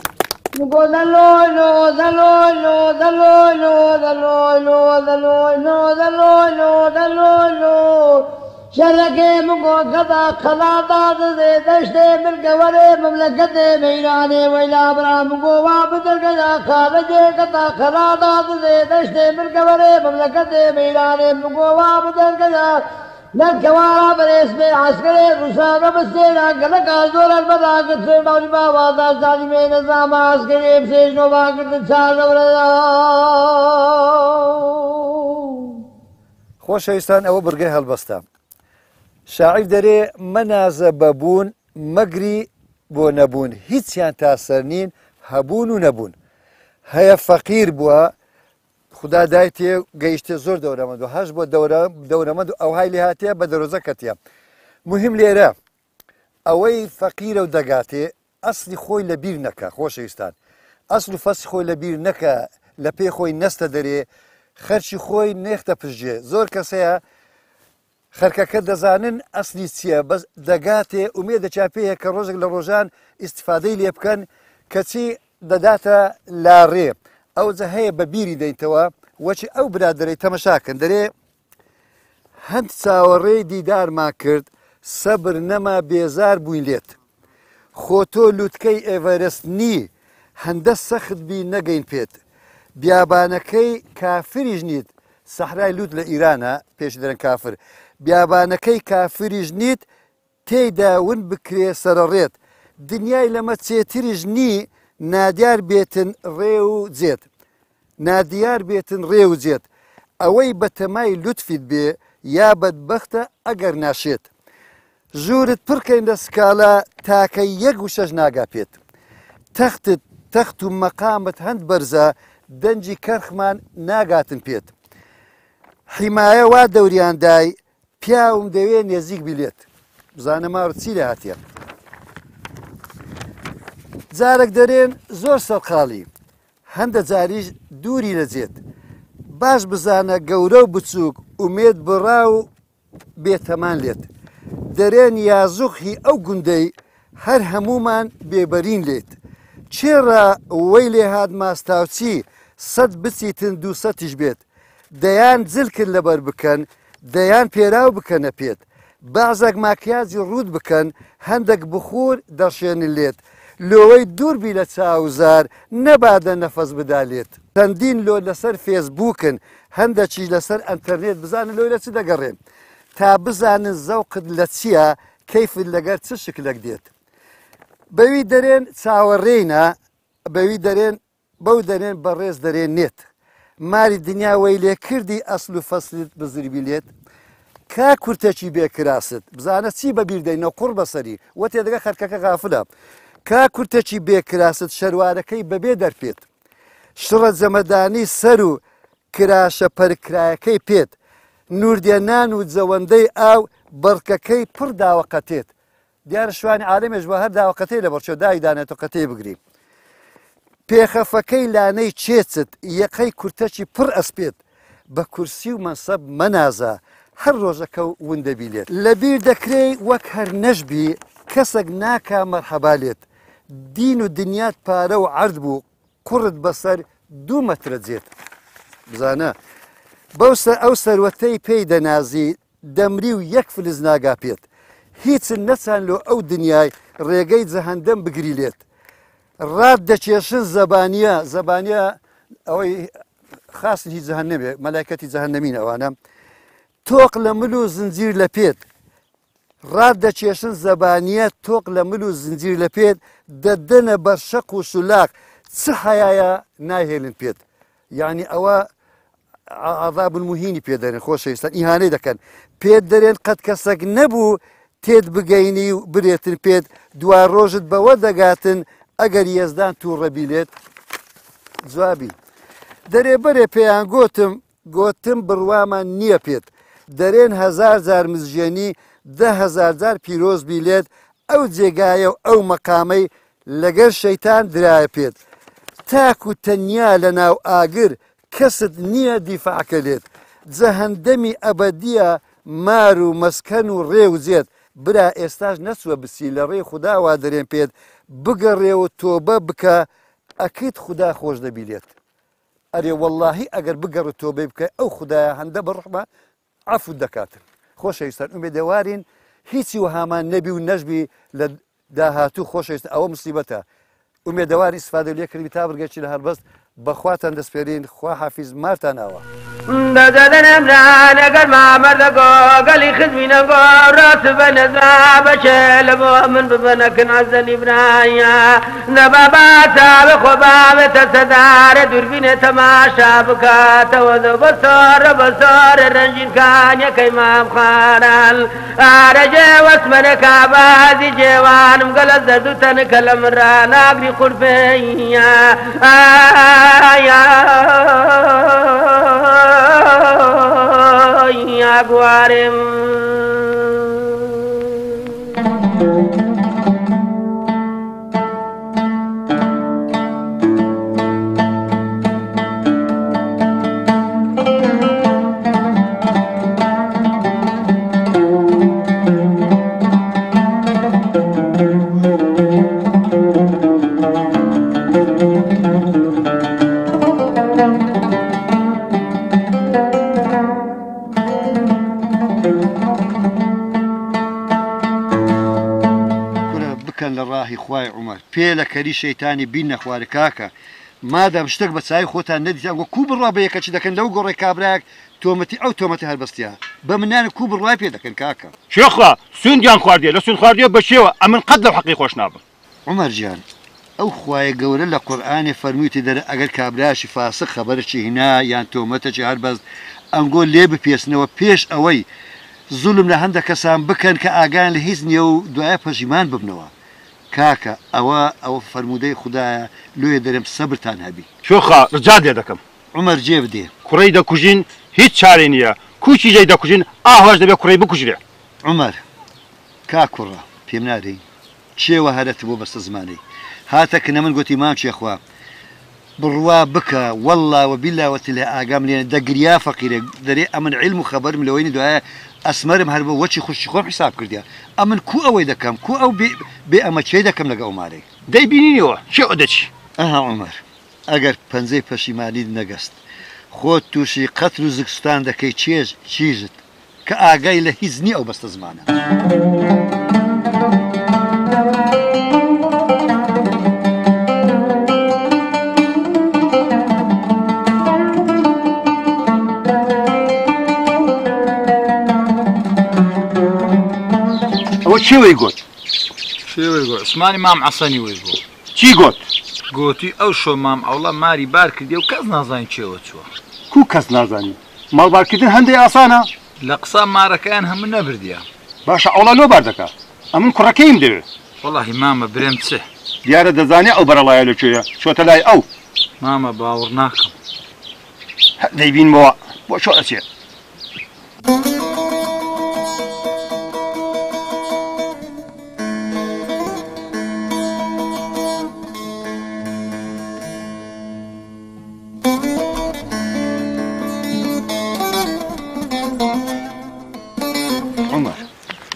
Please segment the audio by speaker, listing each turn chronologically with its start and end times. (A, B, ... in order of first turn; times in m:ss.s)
0:00.5-0:35.8 A
0:36.6-0:38.2 B
0:39.3-0:46.2 B
0:46.9-0:48.1 B
0:48.9-0:54.2 B
0:54.9-0:55.6 B
0:56.5-1:00.4 B
1:00.9-1:04.1 B
1:04.6-1:07.0 B
1:08.1-1:21.1 B
1:22.4-1:27.0 B
1:27.8-1:32.2 B
1:32.8-1:39.9 B
1:40.5-1:47.3 B
1:48.0-1:49.7 B
1:50.2-1:54.3 B
1:55.2-1:58.8 B
1:59.6-2:04.7 B
2:05.9-2:11.4 B
2:14.1-2:16.1 B
2:16.7-2:18.6 B
2:19.3-2:22.5 B
2:23.2-2:24.1 B
2:24.7-2:29.2 B
2:29.7-2:52.4 B
2:53.0-2:56.9 B
2:57.9-2:59.8 B
3:00.3-3:03.1 B
3:03.6-3:06.9 B
3:07.7-3:12.7 B
3:13.3-3:16.2 B
3:17.0-3:18.6 B
3:19.1-3:21.0 B
3:21.5-3:25.5 B
3:26.1-3:29.4 B
3:30.7-3:34.4 B
3:34.9-3:48.1 B
3:48.9-3:49.4 B
3:50.2-3:54.4 B
3:55.0-3:58.6 B
3:59.4-4:02.9 B
4:03.5-4:06.0 B
4:06.8-4:08.6 B
4:09.7-4:17.4 B
4:17.9-4:18.7 B
4:19.5-4:30.5 B
4:31.6-4:32.2 B
4:32.9-4:45.2 B
4:45.9-4:59.9 B
5:00.4-5:01.9 B
5:02.7-5:06.1 B
5:06.7-5:13.6 B
5:14.3-5:19.2 B
5:19.7-5:54.3 C
6:26.5-6:30.5 B
6:31.0-6:38.5 B
6:38.7-6:42.4 D
6:42.9-6:43.4 B
6:44.0-6:49.6 B
6:50.1-6:52.1 B
6:52.7-6:56.7 B
6:57.3-7:01.3 B
7:01.4-7:02.6 D
7:02.9-7:03.7 B
7:03.8-7:08.2 D
7:08.6-7:09.0 B
7:09.9-7:11.2 B
7:11.8-7:15.2 B
7:16.2-7:28.1 B
7:28.3-7:29.7 D
7:30.0-7:33.0 B
7:33.5-7:38.9 B
7:54.8-7:55.6 D
7:56.5-7:58.4 E
7:58.7-7:59.2 D
7:59.7-8:03.3 E
8:03.7-8:06.3 D
8:06.6-8:08.5 E
8:08.9-8:11.2 D
8:11.6-8:12.9 E
8:13.2-8:15.7 D
8:16.2-8:17.3 E
8:18.6-8:20.2 D
8:38.1-8:38.4 B